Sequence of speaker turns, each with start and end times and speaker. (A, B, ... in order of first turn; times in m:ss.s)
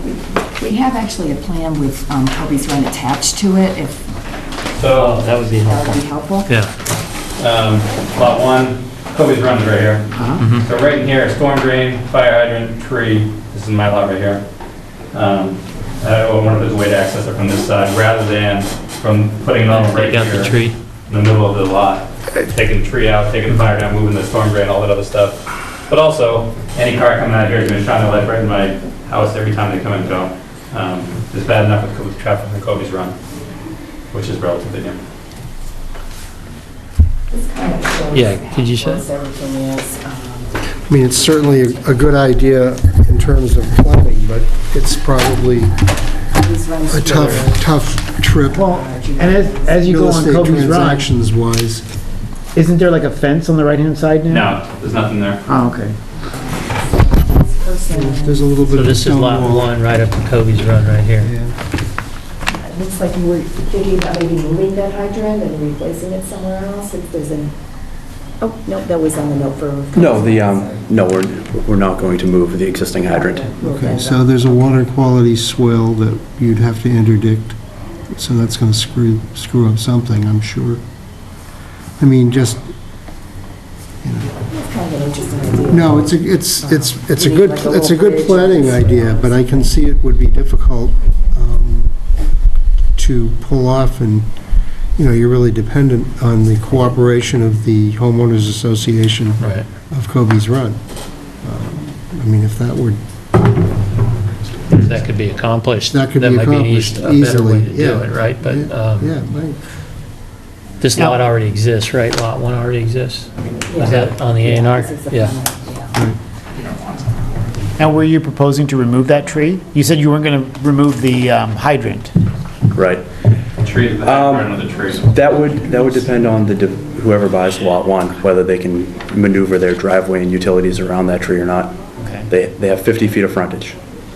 0:00.5-0:04.1 A
0:04.8-0:05.2 B
0:04.9-0:06.7 C
0:05.5-0:06.5 A
0:07.4-0:14.4 B
0:10.4-0:10.7 C
0:15.1-0:20.6 B
0:19.7-0:20.8 C
0:21.1-0:33.2 B
0:34.1-0:35.0 B
0:37.3-0:40.6 A
0:38.1-0:39.0 C
0:40.9-0:45.8 D
0:41.1-0:42.1 A
0:46.3-0:47.6 A
0:46.9-0:48.8 D
0:48.4-0:50.0 A
0:48.6-0:51.1 E
0:49.8-0:51.9 D
0:52.6-0:54.5 E
0:54.3-0:55.4 B
0:55.5-0:56.0 E
0:56.2-0:58.5 A
0:57.9-0:59.7 D
0:58.7-1:01.3 C
1:01.2-1:01.6 D
1:02.5-1:07.5 A
1:08.4-1:10.8 A
1:09.9-1:13.5 F
1:13.1-1:14.8 A
1:13.6-1:17.6 D
1:18.1-1:20.8 D
1:22.0-1:22.7 D
1:24.0-1:24.4 D
1:24.4-1:29.8 A
1:25.7-1:32.0 D
1:33.0-1:34.3 D
1:35.0-1:40.8 D
1:39.4-1:39.7 C
1:41.4-1:43.0 D
1:44.7-1:45.0 D
1:44.7-1:49.1 C
1:45.9-1:49.6 D
1:50.8-1:55.4 C
1:53.7-1:57.2 A
1:57.8-2:02.1 E
2:02.7-2:03.3 F
2:03.6-2:05.1 B
2:04.0-2:13.8 F